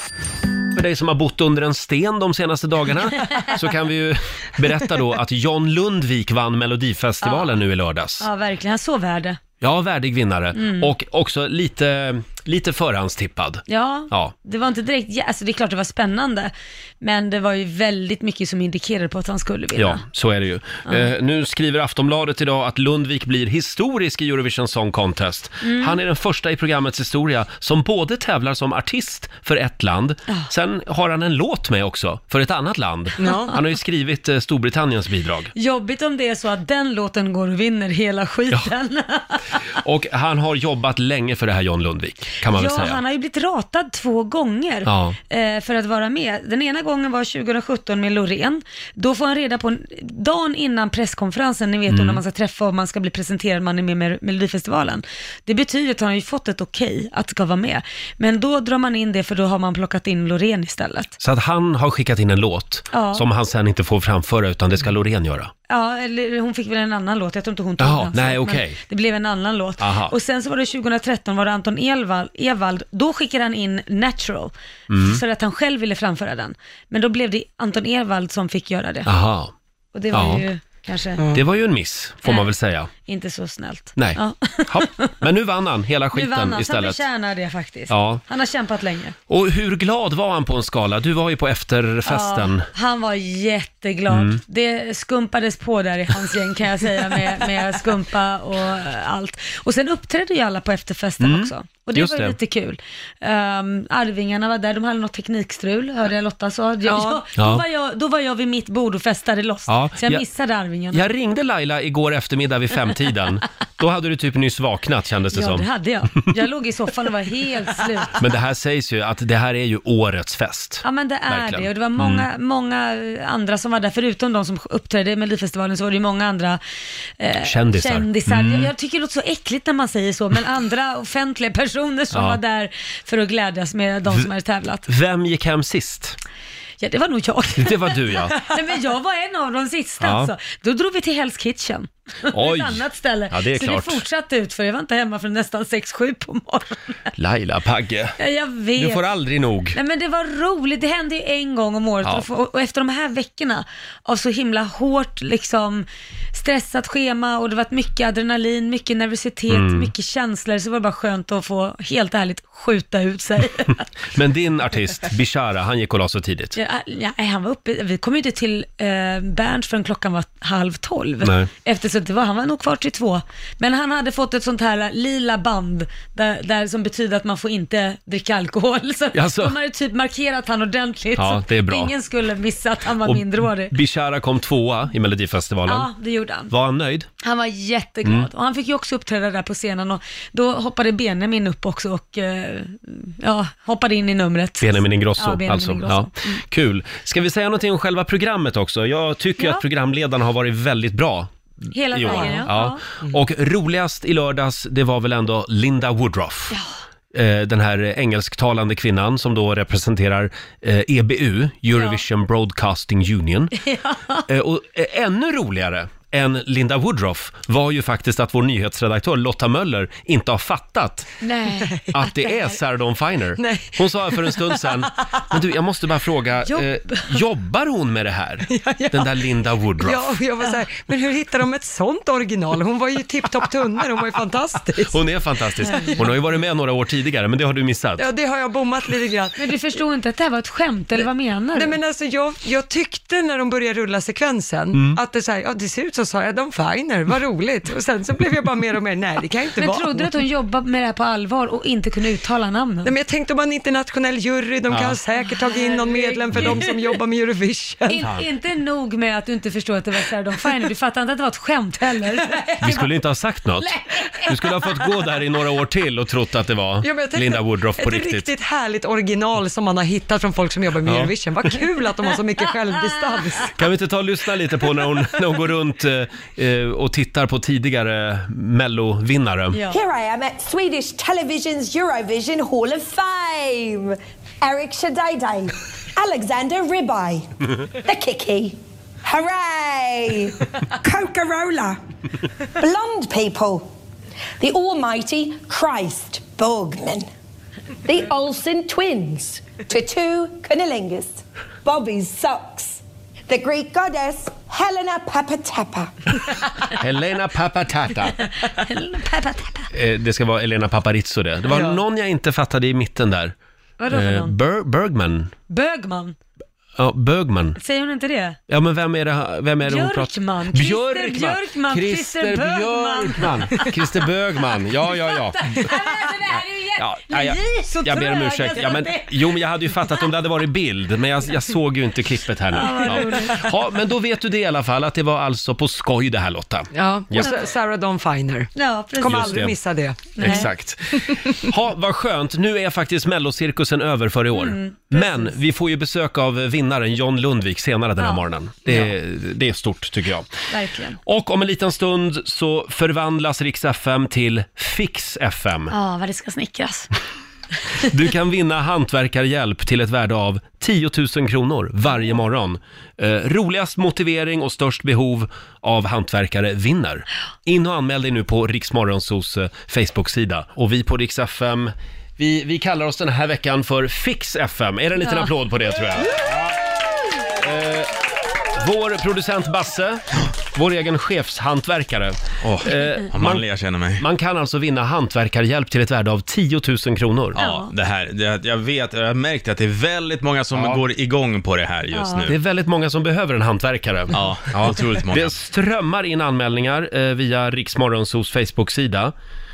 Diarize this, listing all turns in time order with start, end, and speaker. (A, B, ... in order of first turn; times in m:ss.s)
0:00.7-0:08.3 A
0:07.2-0:07.6 B
0:08.2-0:09.4 B
0:09.6-0:14.3 A
0:10.6-0:10.9 B
0:13.7-0:20.0 B
0:19.8-0:35.5 A
0:25.6-0:26.0 B
0:33.2-0:33.6 C
0:35.6-0:39.6 B
0:39.8-0:43.0 A
0:42.5-1:01.2 B
0:44.9-0:45.2 A
0:51.9-0:52.2 A
1:01.2-1:05.5 A
1:02.9-1:03.2 B
1:05.7-1:19.1 B
1:07.8-1:08.8 A
1:09.8-1:10.1 A
1:14.9-1:15.2 A
1:19.1-1:19.5 A
1:19.9-1:21.3 B
1:20.1-1:20.4 A
1:21.3-1:22.9 A
1:23.0-1:25.2 B
1:24.0-1:27.0 A
1:26.1-1:29.2 B
1:27.9-1:28.2 A
1:29.3-1:32.7 A
1:32.1-1:51.0 B
1:34.1-1:34.4 A
1:41.2-1:42.4 A
1:46.9-1:47.2 C
1:47.4-1:47.6 A
1:49.7-1:50.2 A
1:50.9-1:55.7 A
1:55.3-1:58.2 B
1:58.2-2:02.3 A
2:00.8-2:06.6 B
2:07.2-2:14.9 B
2:07.4-2:08.7 A
2:12.1-2:12.4 A
2:14.9-2:16.2 A
2:16.8-2:26.8 B
2:17.6-2:18.4 A
2:20.0-2:20.3 A
2:22.3-2:24.0 A
2:27.2-2:28.2 A
2:28.2-2:29.1 B
2:28.8-2:29.8 A
2:29.8-2:43.8 B
2:39.5-2:39.9 A
2:44.1-2:46.6 A
2:46.6-3:03.7 B
2:51.2-2:51.5 A
2:59.1-2:59.5 A
3:01.2-3:01.9 A
3:03.0-3:05.9 A
3:05.7-3:06.5 B
3:06.5-3:07.1 A
3:07.2-3:16.4 B
3:14.6-3:21.3 A
3:21.7-3:22.8 B
3:21.9-3:26.6 A
3:22.0-3:22.5 C
3:27.1-3:33.6 A
3:31.7-3:32.0 B
3:33.6-3:34.2 B
3:34.3-3:41.1 A
3:41.2-3:42.6 B
3:41.9-3:50.1 A
3:43.4-3:44.8 C
3:46.5-3:47.2 B
3:48.5-3:49.2 C
3:49.8-3:55.0 C
3:54.9-3:58.1 A
3:55.6-3:56.1 C
3:58.0-3:59.5 C
3:59.4-4:01.8 B
4:01.5-4:10.1 C
4:04.7-4:05.0 A
4:09.6-4:12.9 B
4:12.8-4:18.0 C
4:14.7-4:15.0 A
4:15.3-4:16.8 B
4:16.3-4:16.6 A
4:17.9-4:22.9 B
4:18.0-4:18.3 A
4:22.6-4:28.3 A
4:23.6-4:24.5 B
4:26.8-4:33.5 C
4:30.9-4:31.1 A
4:33.6-4:39.6 A
4:39.5-4:39.8 B
4:39.7-4:51.8 D
4:52.6-4:53.7 D
4:54.4-4:57.1 D
4:57.8-5:06.1 D
5:06.7-5:08.2 A
5:08.2-5:09.7 B
5:09.7-5:13.4 A
5:11.5-5:11.8 C
5:13.8-5:14.4 B
5:13.9-5:15.3 A
5:15.5-5:16.2 B
5:16.8-5:17.6 A
5:17.6-5:18.4 B
5:18.5-5:25.7 A
5:19.6-5:23.7 B
5:24.8-5:30.0 B
5:26.8-5:37.4 A
5:32.5-5:33.5 B
5:36.7-5:40.4 C
5:38.6-5:39.4 B
5:39.0-5:50.3 A
5:40.2-5:40.5 B
5:44.3-5:45.3 B
5:50.5-5:51.0 B
5:51.0-5:55.7 A
5:55.7-5:56.9 B
5:57.8-6:16.2 A
6:17.4-6:17.9 A
6:18.6-6:23.5 A
6:22.4-6:24.0 E
6:24.0-6:27.4 A
6:27.4-6:27.7 B
6:27.4-6:32.4 E
6:30.6-6:30.8 A
6:31.9-6:32.3 B
6:32.3-6:39.1 A
6:34.1-6:35.4 E